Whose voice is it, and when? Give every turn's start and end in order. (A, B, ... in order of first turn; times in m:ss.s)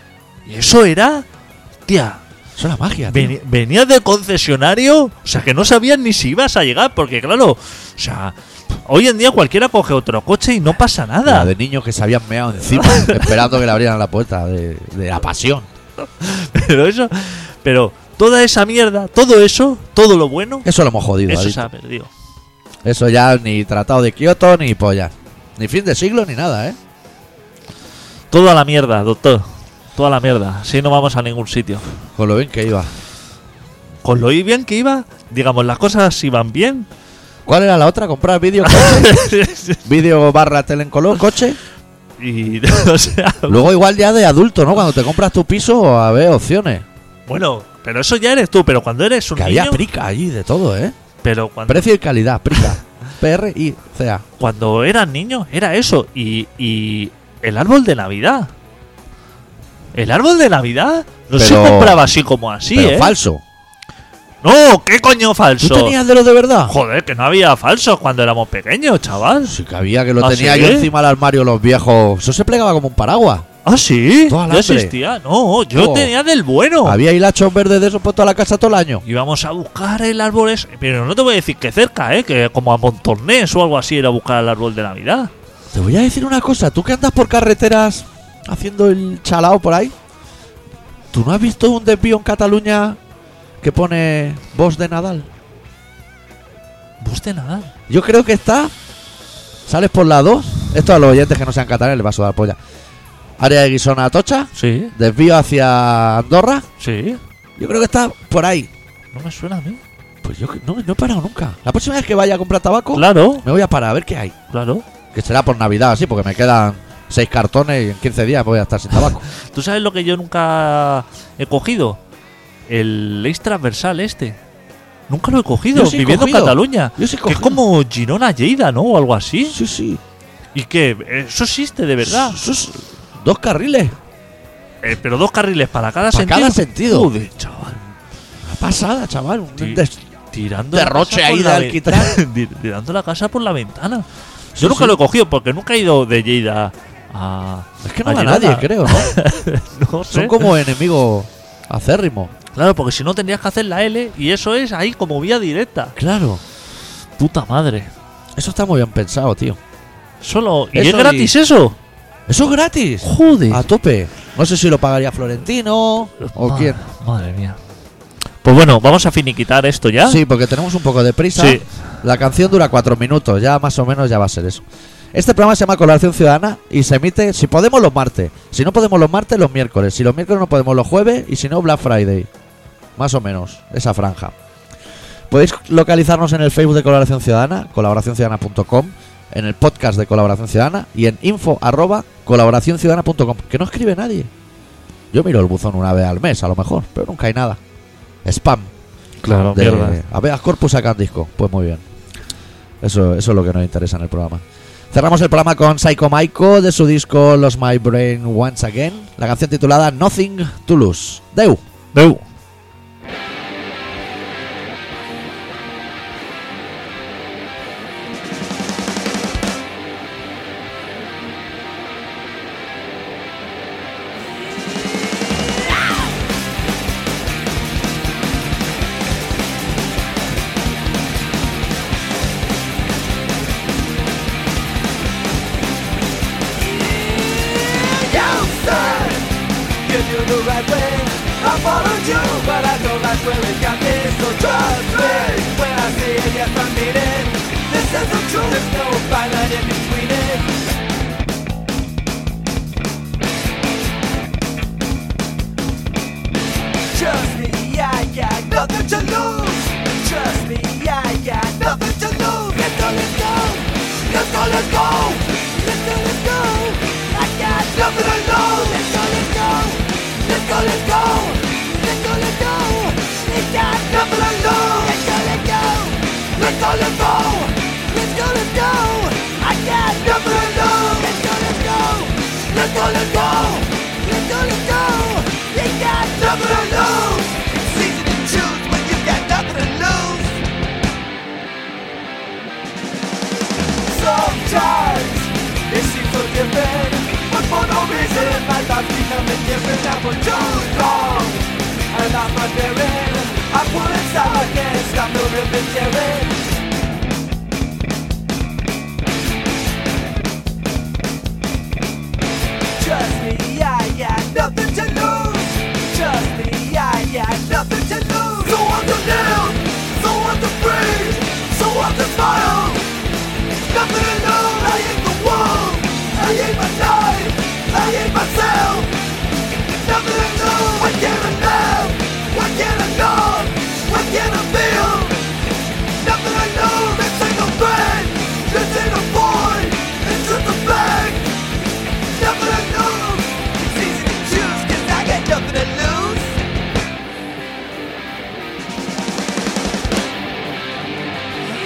0:00.4-0:01.2 A
0:01.9-0:02.2 A
0:02.6-0:03.3 B
0:03.1-0:08.3 A
0:08.8-0:11.5 A
0:11.2-0:15.7 B
0:12.8-0:13.3 A
0:16.0-0:20.7 A
0:20.6-0:21.7 B
0:21.3-0:22.1 A
0:22.8-0:26.8 B
0:28.3-0:31.8 A
0:32.2-0:32.9 B
0:34.0-0:36.9 A
0:37.4-0:39.1 B
0:38.6-0:39.8 A
0:39.8-0:41.6 B
0:42.2-0:43.6 A
0:43.5-0:46.8 B
0:47.3-0:49.8 A
0:49.3-0:50.9 B
0:51.2-0:51.9 A
0:51.7-0:54.2 B
0:54.4-0:58.5 A
0:59.9-1:03.1 A
1:01.3-1:02.0 B
1:02.7-1:03.4 B
1:04.4-1:06.0 A
1:05.6-1:06.7 B
1:06.7-1:09.5 A
1:09.4-1:13.4 B
1:10.2-1:10.9 A
1:13.6-1:17.0 A
1:14.3-1:14.9 B
1:15.7-1:16.1 B
1:16.8-1:19.0 B
1:19.0-1:25.3 A
1:25.7-1:29.9 B
1:31.1-1:33.0 B
1:33.6-1:35.3 B
1:37.0-1:37.7 A
1:37.9-1:38.7 B
1:39.7-1:42.6 B
1:43.4-1:46.6 B
1:44.6-1:44.9 A
1:46.8-1:47.2 A
1:47.6-1:48.7 B
1:49.1-1:49.8 A
1:50.2-1:54.4 B
1:52.9-1:53.4 A
1:54.5-1:54.8 A
1:55.1-1:59.2 B
1:59.4-2:02.0 A
2:02.7-2:04.4 A
2:05.1-2:09.6 A
2:05.7-2:07.6 B
2:09.5-2:10.0 B
2:10.5-2:12.4 A
2:12.0-2:14.0 B
2:14.8-2:17.8 A
2:16.1-2:17.1 B
2:18.4-2:20.0 B
2:19.6-2:24.0 A
2:20.7-2:22.2 B
2:24.5-2:25.0 B
2:24.6-2:30.5 A
2:27.8-2:29.1 B
2:30.1-2:32.3 B
2:32.5-2:35.9 A
2:36.0-2:36.4 B
2:37.2-2:37.9 A
2:38.4-2:39.6 B
2:40.2-2:41.8 A
2:40.7-2:41.3 B
2:42.3-2:46.8 B
2:43.0-2:43.6 A
2:46.2-2:47.6 A
2:48.4-2:50.2 A
2:50.0-3:02.3 B
2:51.3-2:51.7 A
3:03.0-3:04.3 B
3:05.3-3:14.3 B
3:15.1-3:17.6 B
3:18.2-3:18.7 B
3:19.2-3:20.0 A
3:19.3-3:21.8 B
3:22.8-3:31.6 B
3:31.9-3:32.2 A
3:56.7-3:59.3 C
3:59.8-4:10.5 C
4:16.9-4:50.4 C
4:53.8-5:06.4 C
5:12.7-5:22.9 C
5:23.6-5:29.0 C
5:29.7-5:35.2 C
5:35.9-5:41.3 C
5:42.1-5:46.4 C